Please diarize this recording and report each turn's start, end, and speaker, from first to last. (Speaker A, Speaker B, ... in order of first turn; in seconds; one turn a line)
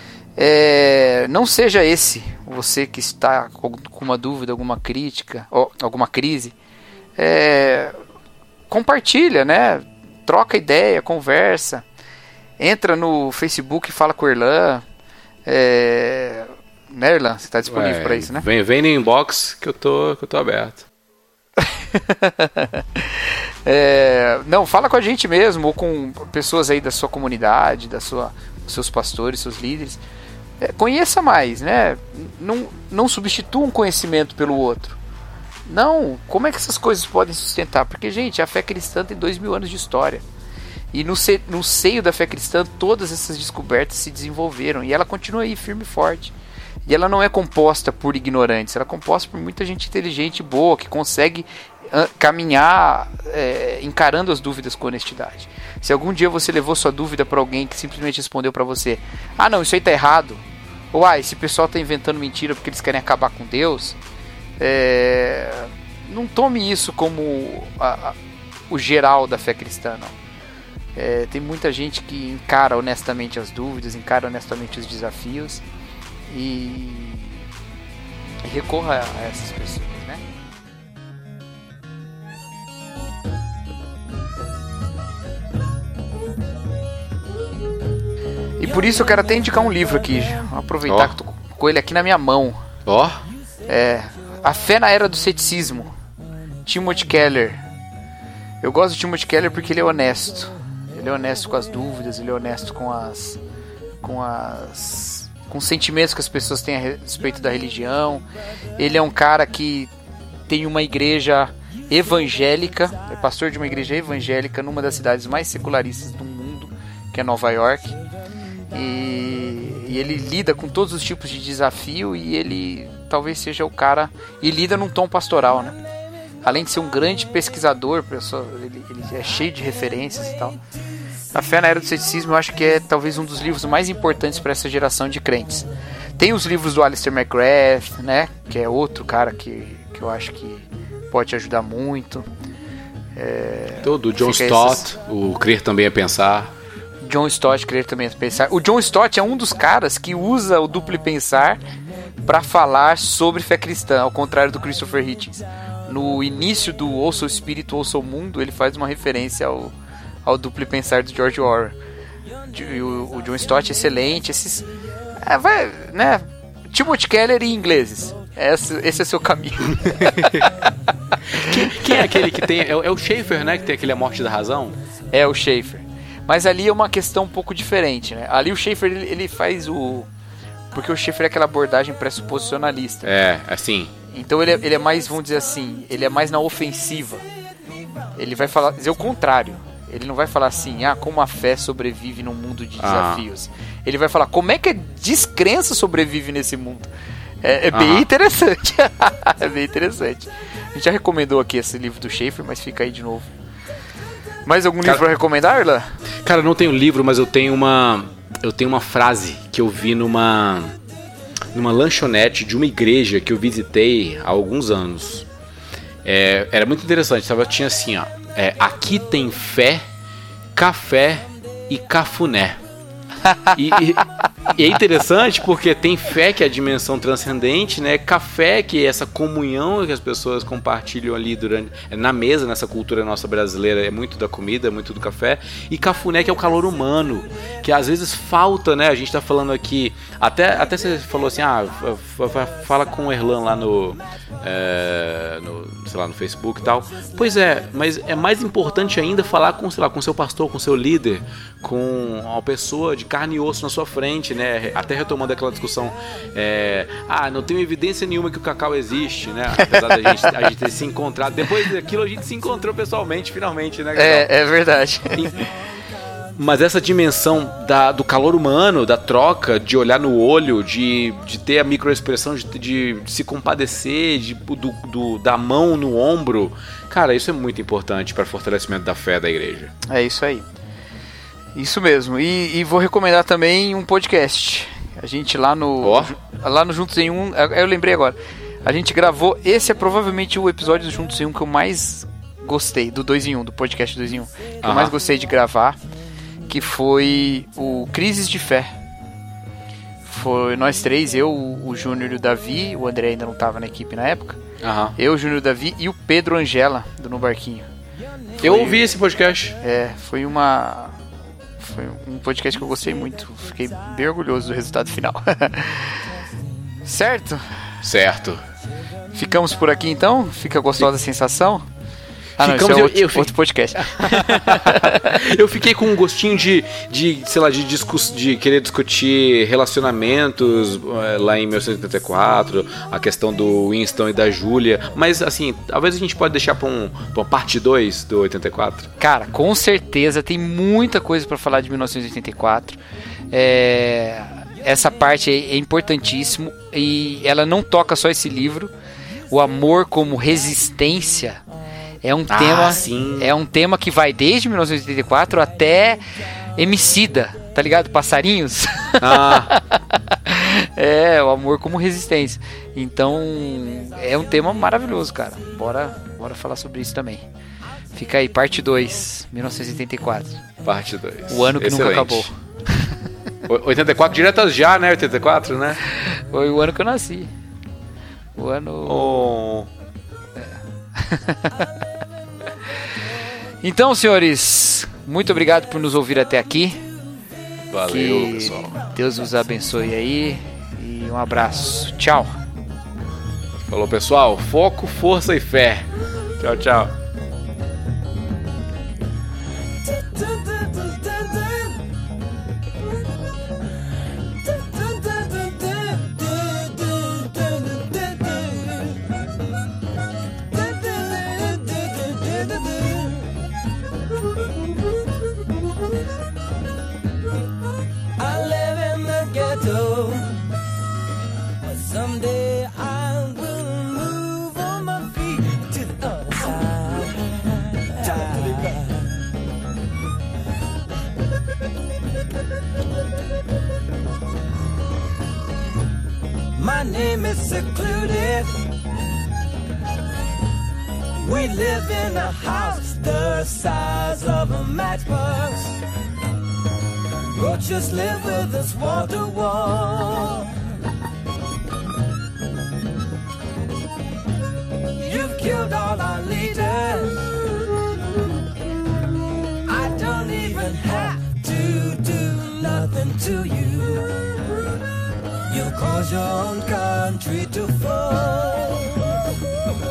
Speaker A: 0.4-6.5
Speaker A: 7.2-8.0
Speaker A: 8.7-11.8
Speaker A: 12.6-14.8
Speaker A: 15.5-18.5
Speaker B: 17.6-20.9
Speaker A: 21.6-30.0
Speaker A: 30.6-35.0
Speaker A: 35.7-40.2
Speaker A: 40.9-46.3
Speaker A: 46.9-64.0
Speaker A: 64.6-68.2
Speaker A: 68.7-70.2
Speaker A: 71.0-75.7
Speaker A: 76.3-77.5
Speaker A: 78.4-80.2
Speaker A: 88.6-92.6
Speaker B: 90.9-91.1
Speaker B: 92.9-93.2
Speaker A: 93.7-96.0
Speaker A: 96.7-97.6
Speaker A: 98.6-103.4
Speaker A: 104.0-108.2
Speaker A: 108.8-109.9
Speaker A: 110.5-118.0
Speaker A: 118.7-125.8
Speaker A: 126.4-130.6
Speaker A: 131.3-135.7
Speaker A: 136.2-142.3
Speaker A: 143.2-144.9
Speaker B: 143.8-146.5
Speaker A: 147.0-151.6
Speaker A: 152.2-159.7
Speaker A: 160.2-161.8
Speaker A: 162.5-164.7
Speaker A: 165.2-172.3
Speaker B: 169.9-170.5
Speaker B: 171.3-174.8
Speaker A: 175.1-180.1
Speaker A: 180.7-183.1
Speaker B: 183.0-183.9
Speaker A: 184.1-187.2
Speaker A: 188.2-196.9
Speaker B: 192.8-193.2
Speaker A: 197.4-203.3
Speaker B: 197.7-198.1
Speaker A: 204.4-206.0
Speaker B: 206.2-210.8
Speaker B: 211.5-215.3
Speaker B: 216.0-219.8
Speaker B: 220.6-222.6
Speaker A: 223.2-223.8
Speaker B: 223.5-264.3
Speaker A: 259.6-260.4
Speaker A: 263.9-265.4
Speaker B: 265.1-265.4
Speaker B: 266.4-279.7
Speaker A: 279.9-280.5
Speaker A: 281.6-295.8
Speaker B: 285.8-286.1
Speaker B: 294.6-294.9
Speaker A: 296.5-298.8
Speaker A: 300.1-304.4
Speaker B: 304.6-304.9
Speaker A: 305.0-307.7
Speaker A: 308.4-308.9
Speaker B: 308.4-309.6
Speaker A: 309.6-310.9
Speaker A: 311.6-316.1
Speaker A: 316.8-317.4
Speaker B: 317.8-318.4
Speaker A: 319.1-321.7
Speaker B: 322.4-338.9
Speaker A: 322.4-325.2
Speaker A: 339.0-342.8
Speaker A: 343.3-348.7
Speaker A: 349.3-351.4
Speaker A: 352.0-356.0
Speaker B: 352.3-353.3
Speaker A: 356.6-367.2
Speaker B: 359.0-359.6
Speaker A: 367.9-370.4
Speaker B: 370.6-372.3
Speaker A: 371.3-372.4
Speaker B: 373.5-375.8
Speaker A: 375.9-377.3
Speaker A: 378.4-379.3
Speaker B: 378.9-379.7
Speaker A: 381.0-381.7
Speaker A: 383.6-386.8
Speaker B: 387.7-388.7
Speaker A: 387.9-392.3
Speaker B: 393.7-395.9
Speaker B: 396.4-396.9
Speaker C: 399.8-401.8
Speaker C: 404.4-409.1
Speaker C: 410.5-413.4
Speaker C: 418.2-420.5
Speaker C: 421.6-429.1
Speaker C: 436.6-438.7
Speaker C: 441.2-445.8
Speaker C: 447.3-450.6
Speaker C: 455.0-457.9
Speaker C: 459.6-464.4
Speaker C: 465.5-469.3